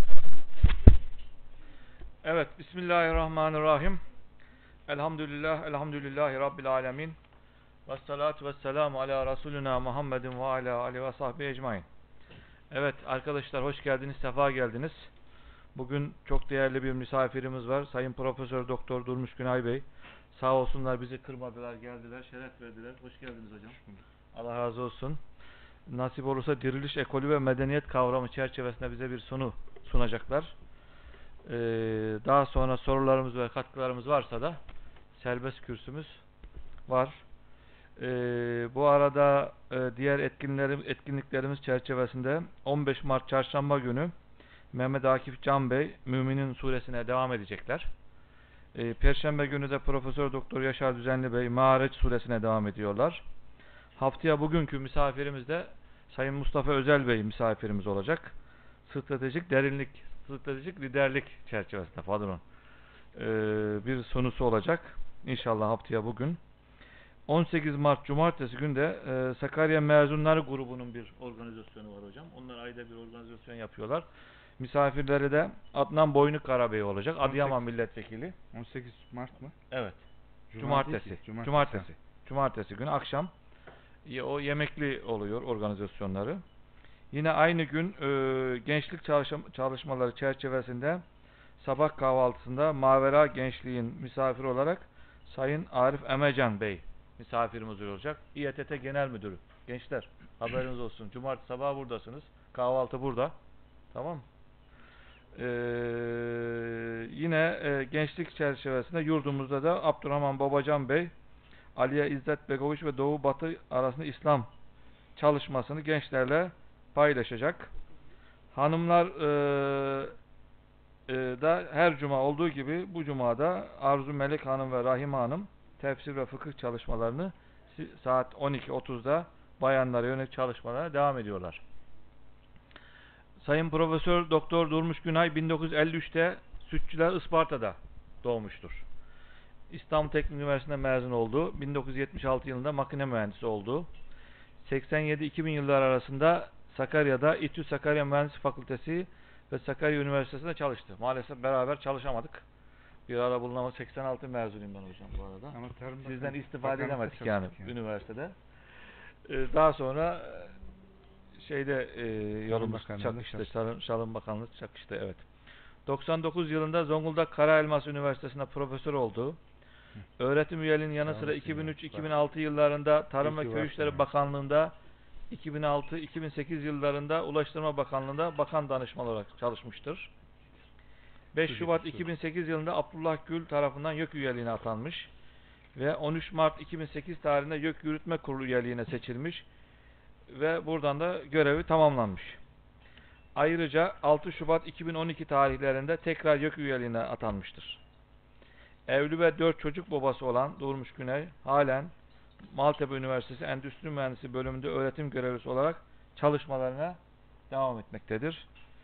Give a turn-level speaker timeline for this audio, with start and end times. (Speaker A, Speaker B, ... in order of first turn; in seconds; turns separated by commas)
Speaker A: 2.2-4.0, Speaker A: 4.9-7.2, Speaker A: 7.9-11.9, Speaker A: 12.7-15.1, Speaker A: 15.8-23.8, Speaker A: 24.3-25.2, Speaker A: 25.9-30.5, Speaker A: 31.4-34.6, Speaker A: 35.1-36.2, Speaker A: 36.9-37.2, Speaker A: 38.0-44.1, Speaker A: 44.7-47.9, Speaker A: 48.7-53.2, Speaker A: 54.0-58.4, Speaker A: 58.9-62.4, Speaker A: 63.1-66.4, Speaker A: 67.3-74.1, Speaker A: 74.6-78.4, Speaker B: 77.2-77.6, Speaker B: 78.5-79.6, Speaker A: 79.7-80.0, Speaker B: 80.5-81.9, Speaker A: 80.6-83.3, Speaker A: 84.0-86.4, Speaker A: 87.1-91.0, Speaker A: 91.6-103.4, Speaker A: 103.9-104.3, Speaker A: 105.3-111.1, Speaker A: 111.8-114.5, Speaker A: 115.2-117.7, Speaker A: 118.5-120.2, Speaker A: 121.1-131.6, Speaker A: 133.4-138.8, Speaker A: 139.7-143.9, Speaker A: 144.6-152.4, Speaker A: 153.1-158.3, Speaker B: 155.5-157.8, Speaker A: 159.3-160.6, Speaker A: 161.4-165.2, Speaker B: 162.5-163.5, Speaker A: 165.9-169.4, Speaker A: 170.2-174.8, Speaker B: 171.0-172.2, Speaker B: 173.2-174.1, Speaker A: 175.3-180.1, Speaker A: 181.3-185.1, Speaker B: 181.4-182.1, Speaker A: 185.8-189.5, Speaker A: 190.3-192.4, Speaker A: 193.3-197.8, Speaker A: 198.9-201.9, Speaker A: 202.5-207.0, Speaker A: 207.5-208.5